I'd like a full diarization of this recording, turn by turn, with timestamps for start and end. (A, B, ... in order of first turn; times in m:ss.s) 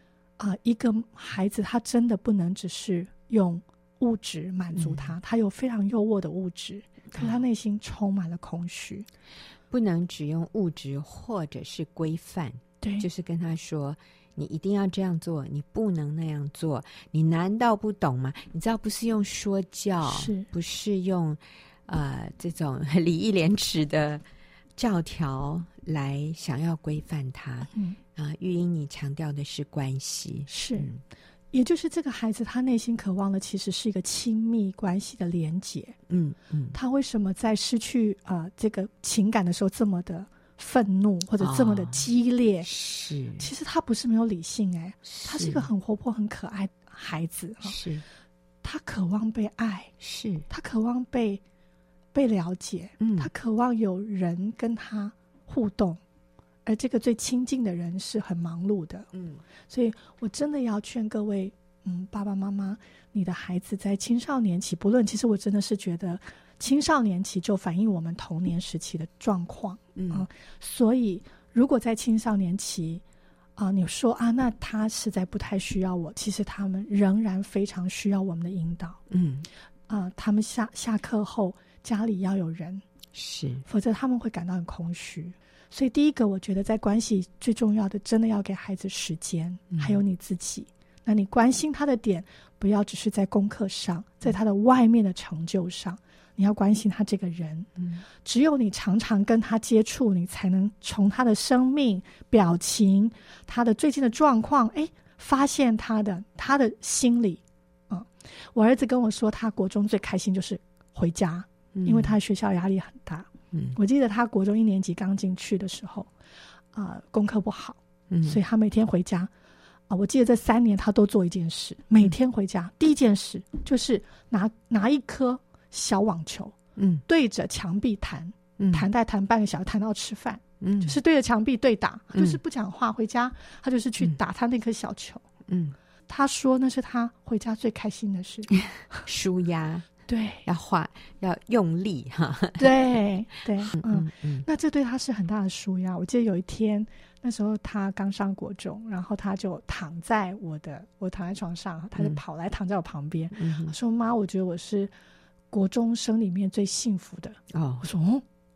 0:00.4-0:09.1 A
0:04.7-0:05.2 B
0:09.7-0:24.2 B
0:12.8-0:13.1 A
0:20.0-0:20.5 A
0:24.8-0:31.0 B
0:27.7-0:28.0 A
0:30.5-0:30.9 A
0:31.5-0:36.0 A
0:36.1-0:36.8 B
0:36.7-0:42.7 A
0:41.4-0:42.1 B
0:42.6-0:43.5 B
0:43.4-0:47.8 A
0:45.0-0:45.7 B
0:47.6-0:48.0 B
0:48.6-0:49.9 A
0:50.0-0:50.5 B
0:50.5-0:51.4 A
0:52.1-0:56.0 A
0:53.0-0:53.3 B
0:56.6-0:59.1 A
0:59.1-0:59.4 B
0:59.7-1:13.0 A
1:09.9-1:10.2 B
1:13.6-1:19.0 A
1:19.1-1:19.5 B
1:19.9-1:22.8 A
1:23.1-1:23.6 B
1:23.7-1:56.1 A
1:29.7-1:30.0 B
1:37.8-1:38.0 B
1:51.7-1:52.2 B
1:53.5-1:53.8 B
1:56.7-1:59.3 A
1:58.1-1:58.4 B
1:59.9-2:06.6 A
2:06.8-2:07.0 B
2:07.1-2:15.2 A
2:08.6-2:08.8 B
2:10.6-2:11.0 B
2:12.1-2:12.4 B
2:15.5-2:15.8 B
2:16.1-2:19.0 A
2:18.5-2:19.9 B
2:20.1-2:20.4 A
2:20.4-2:22.8 B
2:22.6-2:34.9 A
2:23.6-2:24.4 B
2:33.3-2:33.7 B
2:35.5-2:38.2 A
2:37.5-2:37.8 B